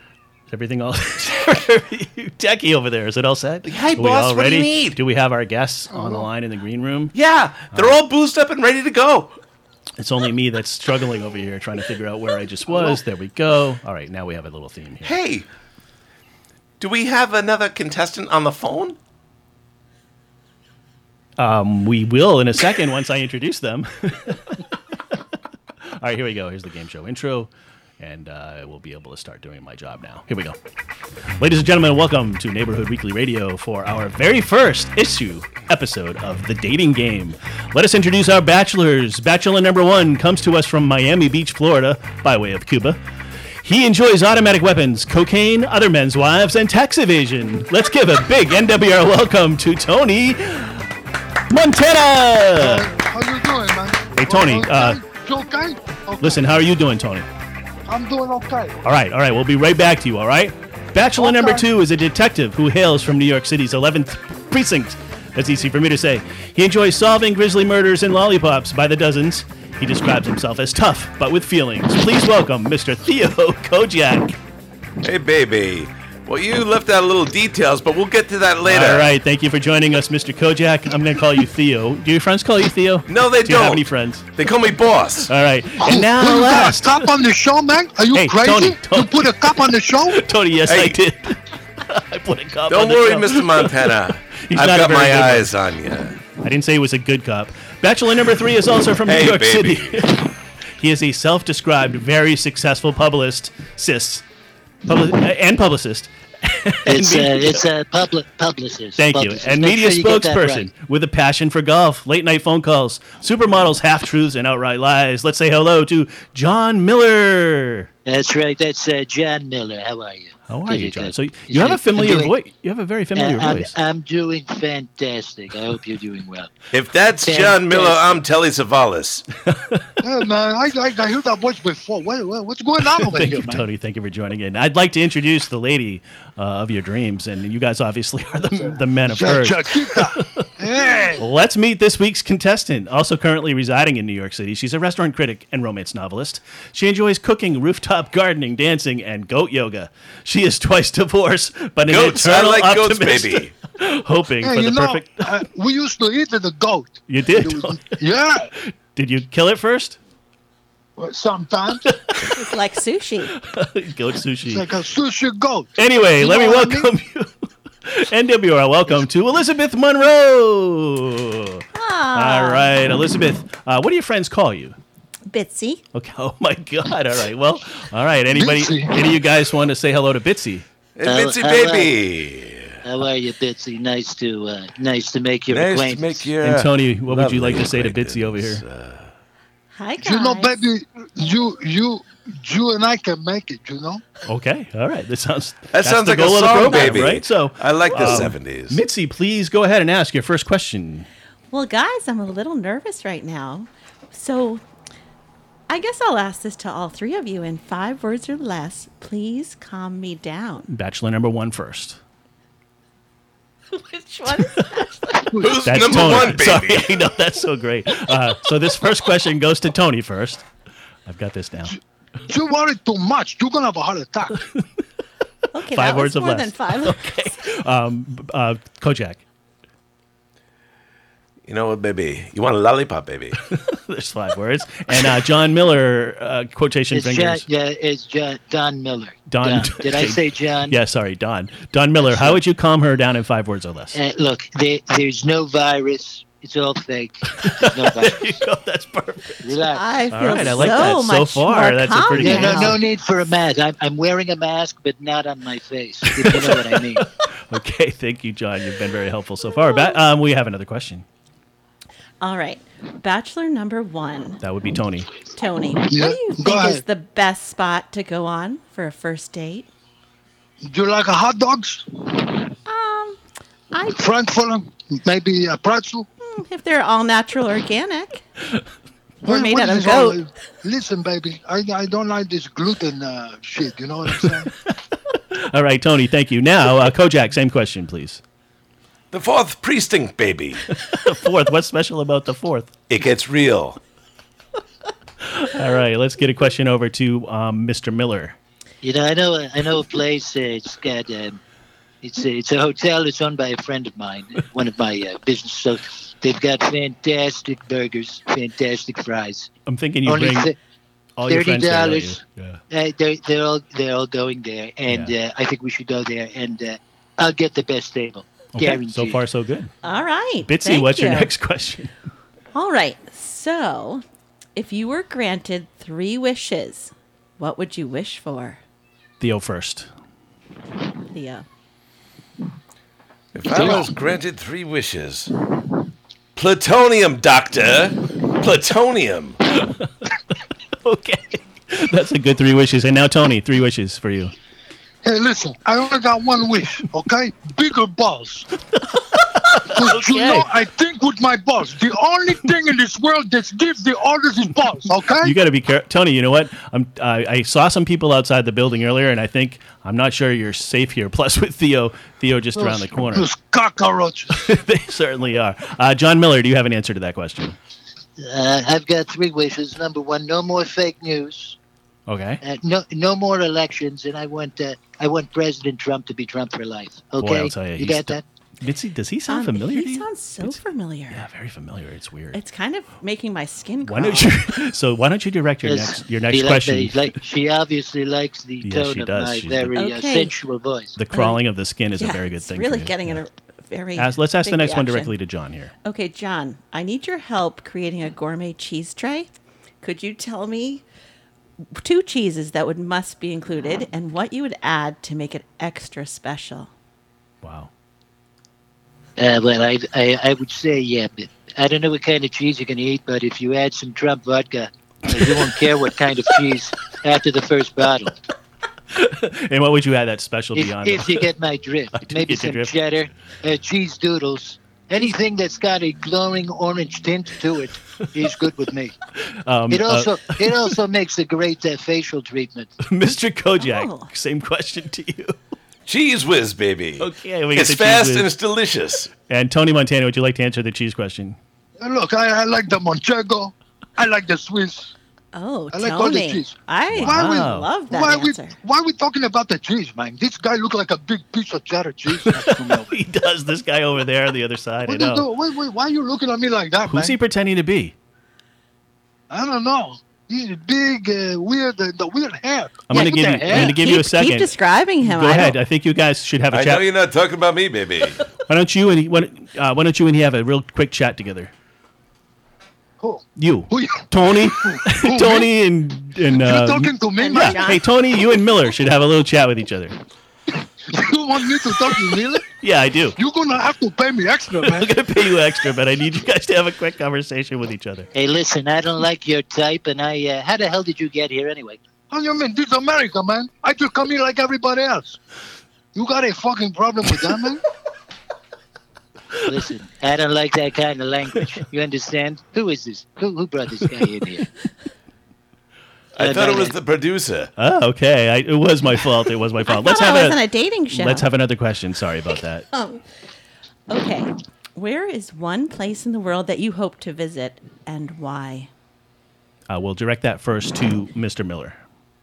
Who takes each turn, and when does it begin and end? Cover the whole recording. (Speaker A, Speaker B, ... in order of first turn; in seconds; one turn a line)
Speaker A: 0.5-7.1
Speaker B: 3.6-5.0
Speaker B: 7.1-9.3
Speaker A: 7.7-8.0
Speaker A: 10.0-15.2
Speaker B: 15.0-15.4
Speaker B: 16.8-19.0
Speaker A: 21.4-24.7
Speaker A: 25.9-30.6
Speaker A: 31.4-43.0
Speaker A: 43.6-50.9
Speaker A: 51.5-52.9
Speaker C: 52.6-56.5
Speaker A: 54.1-55.0
Speaker A: 56.2-57.3
Speaker C: 57.9-58.8
Speaker A: 58.8-74.4
Speaker C: 61.2-61.6
Speaker B: 75.0-79.1
Speaker A: 78.6-84.3
Speaker B: 83.1-85.3
Speaker A: 85.2-87.1
Speaker C: 85.8-90.2
Speaker A: 88.1-95.6
Speaker B: 90.6-91.0
Speaker B: 92.7-96.2
Speaker A: 96.4-104.2
Speaker B: 99.0-100.1
Speaker A: 104.8-107.7
Speaker D: 106.8-110.7
Speaker A: 109.0-117.9
Speaker D: 118.0-122.3
Speaker A: 120.5-123.7
Speaker D: 123.2-126.6
Speaker B: 126.7-129.2
Speaker D: 127.2-128.2
Speaker A: 129.4-129.9
Speaker C: 130.0-133.6
Speaker A: 133.0-140.5
Speaker C: 139.0-141.2
Speaker A: 141.1-155.4
Speaker B: 151.8-153.5
Speaker C: 154.4-158.5
Speaker A: 157.1-158.0
Speaker A: 158.5-160.0
Speaker C: 161.0-161.9
Speaker A: 161.8-162.5
Speaker E: 162.3-163.3
Speaker A: 163.3-164.7
Speaker C: 164.5-166.9
Speaker A: 165.8-174.8
Speaker E: 171.7-172.7
Speaker E: 175.3-175.8
Speaker A: 175.9-180.7
Speaker C: 178.3-179.1
Speaker B: 180.9-182.8
Speaker D: 181.0-182.0
Speaker D: 182.8-186.3
Speaker B: 185.5-189.1
Speaker A: 186.4-188.6
Speaker E: 189.7-190.6
Speaker C: 190.0-194.0
Speaker A: 194.3-201.1
Speaker B: 195.7-198.8
Speaker E: 201.5-204.6
Speaker E: 205.7-210.7
Speaker A: 210.7-212.0
Speaker E: 213.7-215.5
Speaker A: 214.3-214.8
Speaker B: 215.3-217.1
Speaker A: 215.6-220.4
Speaker A: 221.1-221.8
Speaker C: 222.3-224.4
Speaker E: 225.5-227.3
Speaker A: 225.7-229.2
Speaker B: 231.4-233.4
Speaker A: 233.5-237.4
Speaker D: 236.9-240.8
Speaker A: 239.3-244.0
Speaker D: 242.1-242.4
Speaker D: 243.9-248.4
Speaker A: 247.4-252.8
Speaker D: 249.4-250.8
Speaker E: 249.7-252.8
Speaker D: 252.2-257.1
Speaker A: 256.0-261.1
Speaker E: 259.6-259.9
Speaker E: 262.2-264.4
Speaker A: 264.4-265.1
Speaker E: 265.2-269.7
Speaker C: 265.8-266.8
Speaker C: 270.6-272.5
Speaker E: 272.6-273.2
Speaker E: 273.7-274.0
Speaker C: 273.8-276.1
Speaker E: 276.2-278.2
Speaker E: 279.2-280.2
Speaker C: 279.2-284.5
Speaker A: 284.6-288.2
Speaker B: 289.1-290.7
Speaker A: 290.7-292.7
Speaker B: 292.9-293.8
Speaker A: 295.2-298.4
Speaker D: 298.8-301.4
Speaker D: 302.0-309.5
Speaker A: 309.7-310.5
Speaker D: 310.1-310.6
Speaker A: 311.2-312.6
Speaker D: 311.3-319.2
Speaker A: 318.5-319.7
Speaker E: 319.8-321.3
Speaker A: 320.4-321.9
Speaker E: 322.5-324.0
Speaker E: 324.6-328.6
Speaker A: 329.2-329.9
Speaker E: 331.1-331.4
Speaker B: 333.3-335.3
Speaker B: 336.4-339.4
Speaker A: 339.6-339.9
Speaker A: 340.8-344.3
Speaker C: 345.0-348.5
Speaker A: 349.1-350.5
Speaker C: 349.6-355.3
Speaker A: 355.2-363.3
Speaker C: 362.6-364.4
Speaker A: 364.3-367.6
Speaker D: 368.2-371.6
Speaker A: 372.1-372.4
Speaker D: 372.4-378.2
Speaker A: 377.2-380.6
Speaker E: 379.3-381.2
Speaker A: 381.1-382.4
Speaker E: 382.3-384.4
Speaker A: 383.8-387.1
Speaker D: 385.6-391.0
Speaker A: 388.6-389.8
Speaker E: 389.7-390.3
Speaker A: 390.9-393.2
Speaker E: 391.1-391.4
Speaker E: 392.0-395.1
Speaker A: 394.0-395.7
Speaker E: 395.8-399.3
Speaker E: 399.8-400.8
Speaker E: 401.7-406.7
Speaker A: 407.4-407.7
Speaker D: 409.2-418.2
Speaker A: 418.9-421.3
Speaker D: 420.5-429.0
Speaker A: 421.9-422.7
Speaker A: 429.3-430.7
Speaker D: 429.7-432.8
Speaker A: 432.8-435.4
Speaker E: 433.6-434.1
Speaker B: 435.9-439.1
Speaker A: 437.0-438.3
Speaker A: 439.2-441.4
Speaker C: 441.8-444.9
Speaker E: 445.3-448.6
Speaker C: 445.7-453.0
Speaker A: 446.9-447.7
Speaker A: 452.1-455.3
Speaker C: 454.8-457.2
Speaker A: 456.8-457.9
Speaker C: 459.3-463.7
Speaker A: 462.9-466.9
Speaker D: 462.9-463.6
Speaker E: 463.5-465.6
Speaker B: 466.5-468.2
Speaker A: 468.4-471.5
Speaker C: 473.0-475.5
Speaker A: 473.4-479.9
Speaker C: 476.3-477.7
Speaker E: 477.2-477.8
Speaker C: 480.5-482.4
Speaker A: 482.6-483.2
Speaker C: 483.1-484.9
Speaker A: 484.6-488.1
Speaker D: 488.1-491.8
Speaker C: 492.1-495.2
Speaker C: 495.9-497.6
Speaker D: 499.4-504.5
Speaker B: 506.1-507.5
Speaker D: 506.2-506.8
Speaker A: 507.6-510.4
Speaker E: 509.7-511.2
Speaker A: 510.9-512.6
Speaker E: 512.7-513.0
Speaker E: 513.9-518.7
Speaker A: 519.7-521.8